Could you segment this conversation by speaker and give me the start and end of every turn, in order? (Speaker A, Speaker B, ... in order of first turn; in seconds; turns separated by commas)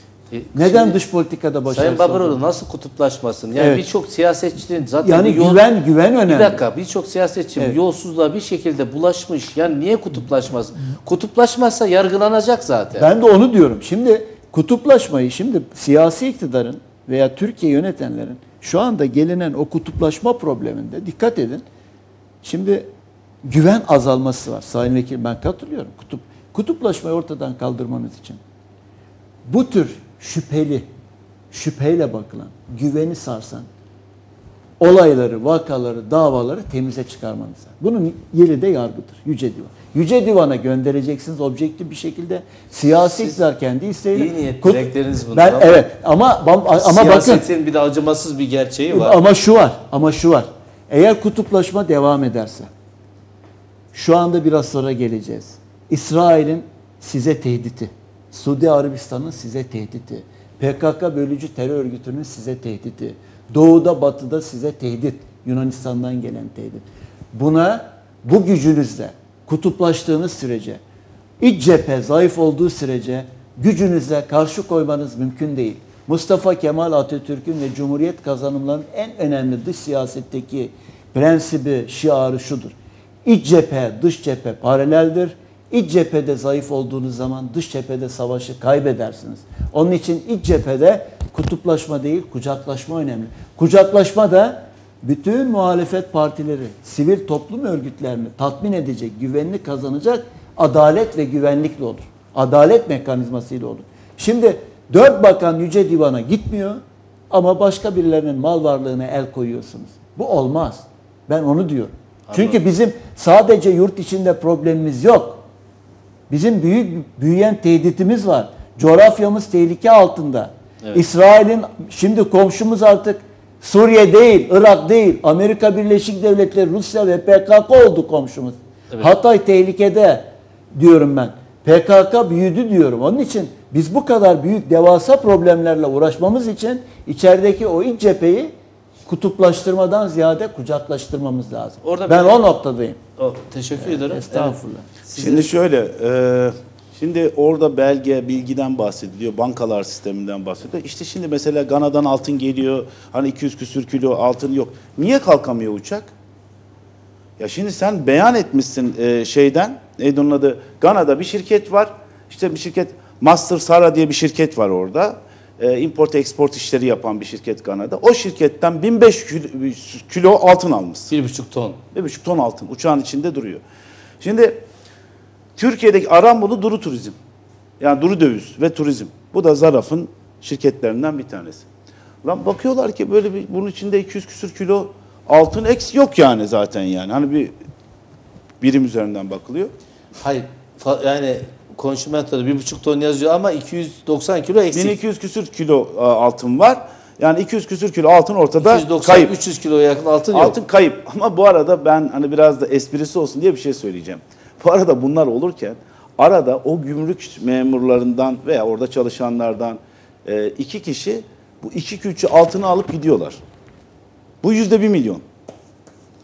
Speaker A: 0.3-1.0, Speaker B: 0.6-2.4, Speaker A: 1.7-5.6, Speaker B: 3.6-3.9, Speaker B: 5.0-6.6, Speaker A: 6.3-13.1, Speaker B: 13.0-21.6, Speaker B: 22.4-22.9, Speaker B: 23.4-28.4, Speaker B: 29.5-30.9, Speaker B: 31.5-33.7, Speaker B: 34.8-47.5, Speaker A: 44.1-45.8, Speaker A: 46.8-49.2, Speaker B: 48.9-52.7, Speaker B: 53.9-70.8, Speaker B: 71.4-82.7, Speaker B: 83.2-115.4, Speaker A: 112.3-112.6, Speaker B: 116.3-138.5, Speaker B: 139.1-143.0, Speaker A: 141.8-142.5, Speaker A: 143.2-145.5, Speaker B: 143.8-144.9, Speaker C: 145.2-156.1, Speaker C: 157.4-171.1, Speaker A: 171.1-171.8, Speaker C: 171.9-173.6, Speaker C: 174.2-174.7, Speaker C: 175.6-177.2, Speaker C: 177.8-181.7, Speaker C: 182.2-187.6, Speaker C: 188.6-189.7, Speaker A: 190.2-195.0, Speaker C: 194.7-199.3, Speaker A: 198.6-200.6, Speaker C: 200.3-213.4, Speaker C: 214.4-215.2